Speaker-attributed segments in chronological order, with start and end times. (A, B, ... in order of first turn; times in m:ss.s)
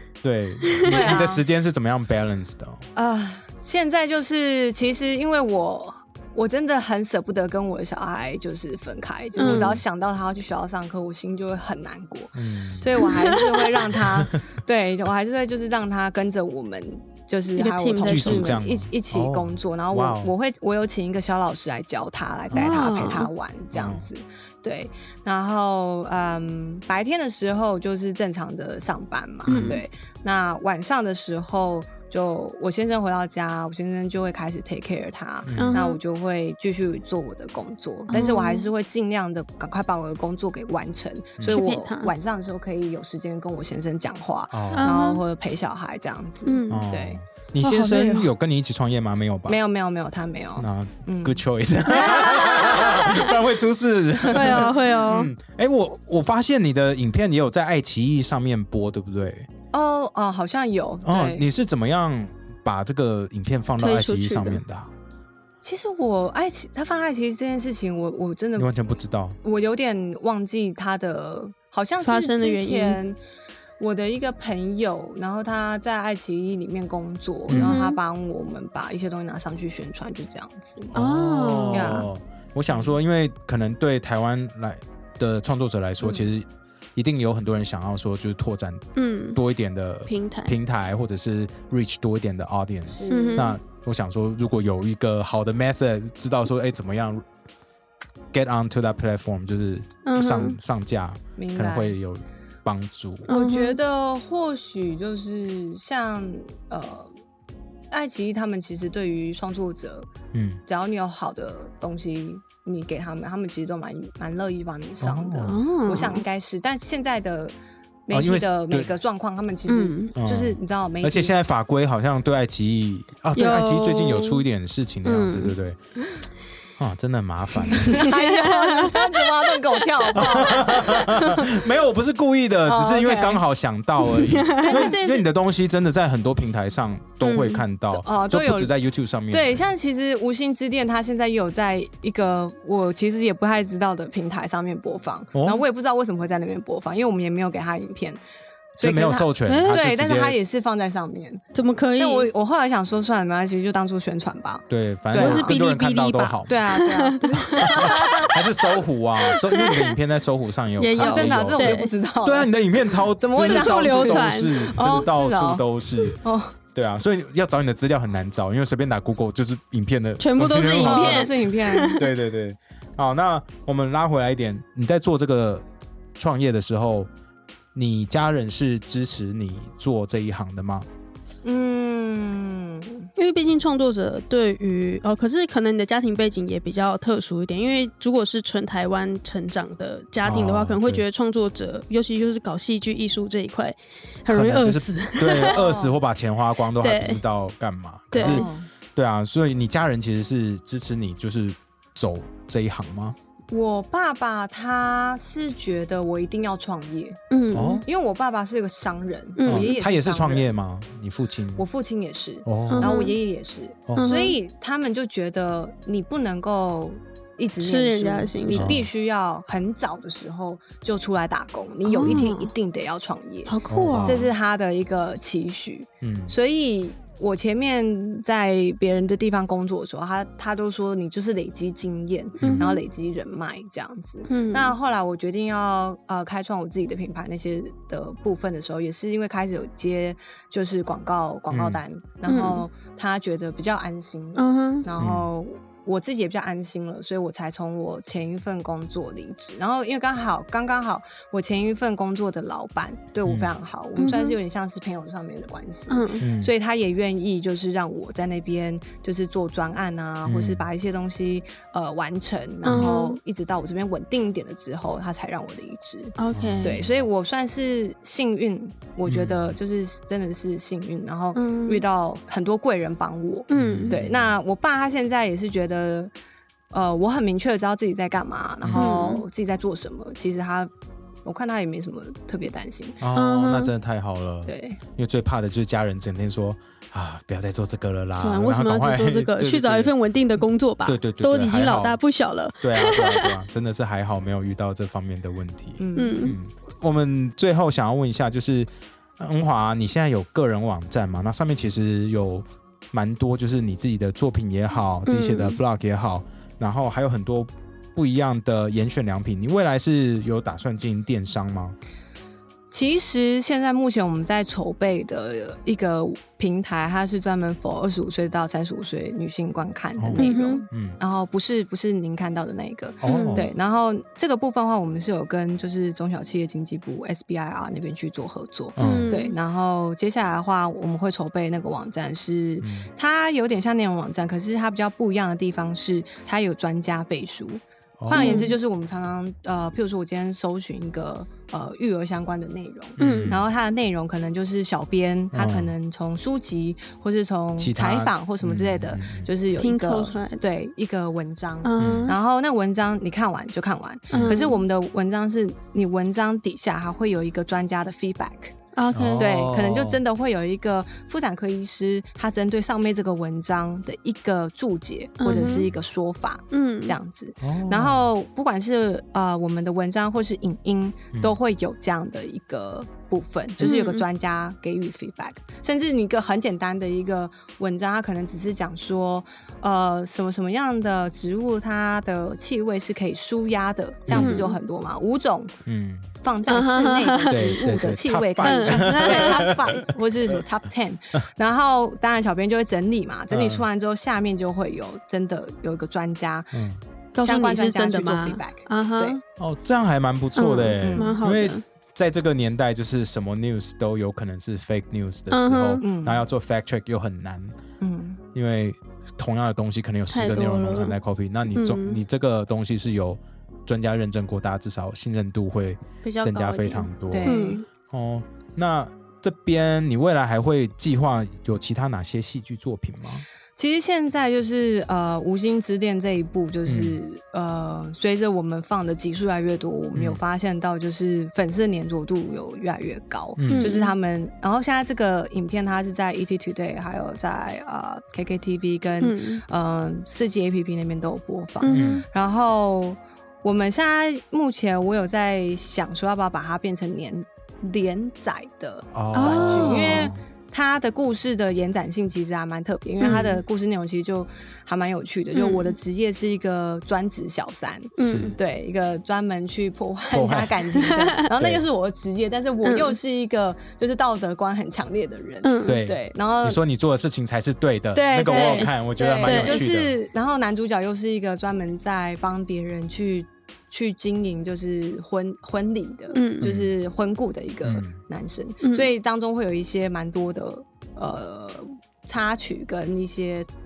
0:00.2-0:02.8 A
0:00.7-0:01.2 B
0:00.8-0:01.4 C
0:02.9-0:47.2 C
0:09.4-0:09.8 B
0:09.4-0:09.8 A
0:12.3-0:13.0 A
0:13.0-0:13.6 B
0:17.6-0:18.6 B
0:18.0-0:20.3 A
0:22.5-0:23.3 B
0:23.7-0:24.0 A
0:29.5-0:29.7 A
0:29.5-0:29.8 B
0:35.4-0:35.8 A
0:35.5-0:36.0 B
0:38.1-0:38.7 B
0:41.4-0:41.6 A
0:41.5-0:42.1 B
0:44.5-0:44.9 A
0:44.8-0:45.2 B
0:46.4-0:46.9 B
0:46.7-0:49.6 A
0:47.6-0:48.3 B
0:49.5-0:53.2 C
0:50.6-0:59.5 A
0:52.0-0:53.3 B
0:54.2-0:54.7 C
0:54.3-0:55.3 B
0:59.7-1:01.4 C
1:01.0-1:04.9 A
1:03.8-1:04.6 B
1:05.6-1:08.8 C
1:08.6-1:09.4 A
1:09.4-1:13.2 C
1:12.0-1:13.0 B
1:13.8-1:20.9 C
1:17.5-1:17.8 A
1:17.5-1:18.0 B
1:20.9-1:22.0 B
1:20.9-1:28.8 A
1:21.7-1:22.1 C
1:29.0-1:29.4 B
1:29.3-1:37.2 A
1:30.1-1:30.5 B
1:32.9-1:33.5 C
1:33.1-1:33.6 B
1:38.3-1:43.3 A
1:40.0-1:40.6 B
1:41.4-1:42.0 C
1:43.3-1:47.1 C
1:43.3-1:43.8 B
1:47.9-1:50.1 C
1:50.3-1:50.6 A
1:50.6-1:57.5 C
1:55.0-1:55.6 A
1:55.4-1:56.2 B
1:58.1-2:01.3 C
1:58.1-1:58.9 A
1:59.7-2:00.1 B
2:00.2-2:05.8 A
2:03.4-2:04.4 B
2:05.0-2:05.5 B
2:06.8-2:08.0 A
2:07.8-2:11.4 C
2:08.0-2:09.6 B
2:10.1-2:10.4 B
2:10.1-2:19.6 A
2:12.6-2:13.4 C
2:14.2-2:14.9 B
2:14.6-2:15.2 C
2:17.2-2:17.6 B
2:17.9-2:18.7 C
2:19.3-2:28.2 C
2:25.3-2:25.6 A
2:28.8-2:31.4 C
2:28.8-2:30.4 A
2:29.5-2:29.8 B
2:31.5-2:32.3 B
2:32.0-2:35.5 C
2:34.7-2:36.6 A
2:35.2-2:38.3 B
2:36.5-2:38.5 C
2:37.6-2:46.2 A
2:39.3-2:39.9 B
2:40.8-2:41.9 B
2:41.0-2:42.5 C
2:43.2-2:46.5 C
2:43.3-2:44.7 B
2:46.7-2:51.3 A
2:50.2-2:52.1 B
2:50.8-2:52.0 C
2:51.9-2:55.6 A
2:56.2-2:57.1 A
2:57.7-3:00.9 A
3:01.4-3:03.1 C
3:03.2-3:15.6 B
3:10.2-3:11.0 A
3:14.3-3:23.2 A
3:15.4-3:15.9 C
3:16.8-3:17.2 B
3:18.1-3:18.4 B
3:18.1-3:18.7 C
3:23.5-3:27.2 C
3:27.3-3:27.8 B
3:27.5-3:27.8 A
3:27.8-3:30.5 C
3:29.4-3:29.7 B
3:29.4-3:31.6 A
3:31.6-4:36.1 C
3:32.4-3:32.9 A
3:32.7-3:33.1 B
3:34.0-3:34.4 B
3:37.6-3:38.7 B
3:38.5-3:38.9 A
3:41.9-3:42.5 B
3:43.5-3:44.2 B
3:43.7-3:44.3 A
3:46.0-3:46.3 A
3:52.4-3:52.7 A
3:52.4-3:52.8 B
3:54.3-3:54.7 B
4:01.5-4:01.8 A
4:02.3-4:02.6 B
4:04.4-4:04.8 B
4:05.0-4:05.3 A
4:14.0-4:14.4 B
4:15.9-4:16.2 B
4:16.2-4:16.5 A
4:20.2-4:20.7 A
4:22.6-4:23.2 B
4:26.2-4:26.8 B
4:26.3-4:27.0 A
4:29.0-4:29.6 A
4:31.3-4:31.8 B
4:33.5-4:34.0 B
4:33.5-4:34.3 A
4:36.7-4:40.7 C
4:38.6-4:38.9 A
4:38.7-4:39.2 B
4:41.2-4:43.0 C
4:43.0-4:49.9 A
4:43.1-4:43.7 B
4:44.4-4:44.8 C
4:48.2-4:53.4 B
4:50.8-4:52.0 A
4:52.6-5:11.7 A
4:55.8-4:56.3 C
4:56.0-4:56.3 B
5:05.0-5:05.6 B
5:12.7-5:58.5 C
5:20.0-5:21.0 A
5:20.2-5:20.6 B
5:23.0-5:23.5 A
5:23.0-5:23.4 B
5:28.8-5:29.1 A
5:28.8-5:29.3 B
5:32.6-5:32.9 A
5:38.0-5:38.4 A
5:38.1-5:38.5 B
5:43.0-5:43.4 B
5:43.0-5:43.4 A
5:45.3-5:45.7 A
5:47.6-5:49.3 A
5:49.6-5:50.4 B
5:51.6-5:52.1 B
5:51.8-5:52.1 A
5:54.1-5:54.5 A
5:54.1-5:54.6 B
5:58.8-5:59.4 B
5:58.9-6:00.0 A
5:59.2-6:25.5 C
6:05.2-6:05.7 B
6:06.5-6:06.9 B
6:07.4-6:08.1 A
6:13.6-6:14.0 B
6:24.1-6:24.4 A
6:24.1-6:24.5 B
6:25.6-6:26.1 A
6:26.2-6:36.6 C
6:26.5-6:27.5 B
6:27.3-6:29.8 A
6:28.4-6:29.6 B
6:33.3-6:33.6 A
6:36.5-6:36.8 A
6:37.1-6:39.2 B
6:37.2-6:39.2 C
6:39.4-6:47.6 A
6:40.4-6:41.6 B
6:40.8-6:41.2 C
6:45.3-6:45.8 B
6:45.8-6:46.2 C
6:47.8-6:48.2 C
6:48.3-6:57.4 A
6:50.1-6:51.0 B
6:51.5-6:52.0 B
6:56.0-6:57.6 B
6:57.1-6:57.6 C
6:57.9-7:03.2 A
7:03.6-7:46.6 C
7:06.6-7:07.0 A
7:13.4-7:13.7 A
7:13.5-7:13.9 B
7:19.0-7:19.4 B
7:21.6-7:22.0 B
7:21.7-7:22.0 A
7:28.9-7:30.2 A
7:29.1-7:30.1 B
7:33.0-7:33.3 B
7:35.3-7:35.7 B
7:38.0-7:38.4 B
7:38.0-7:38.4 A
7:40.1-7:40.6 A
7:40.8-7:41.1 B
7:42.6-7:42.9 B
7:45.4-7:45.8 B
7:45.6-7:49.9 A
7:47.9-8:03.5 C
7:48.2-7:48.7 B
7:49.2-7:49.7 B
7:56.1-7:56.5 B
7:56.4-7:56.7 A
7:57.6-7:58.0 A
7:58.6-7:58.9 B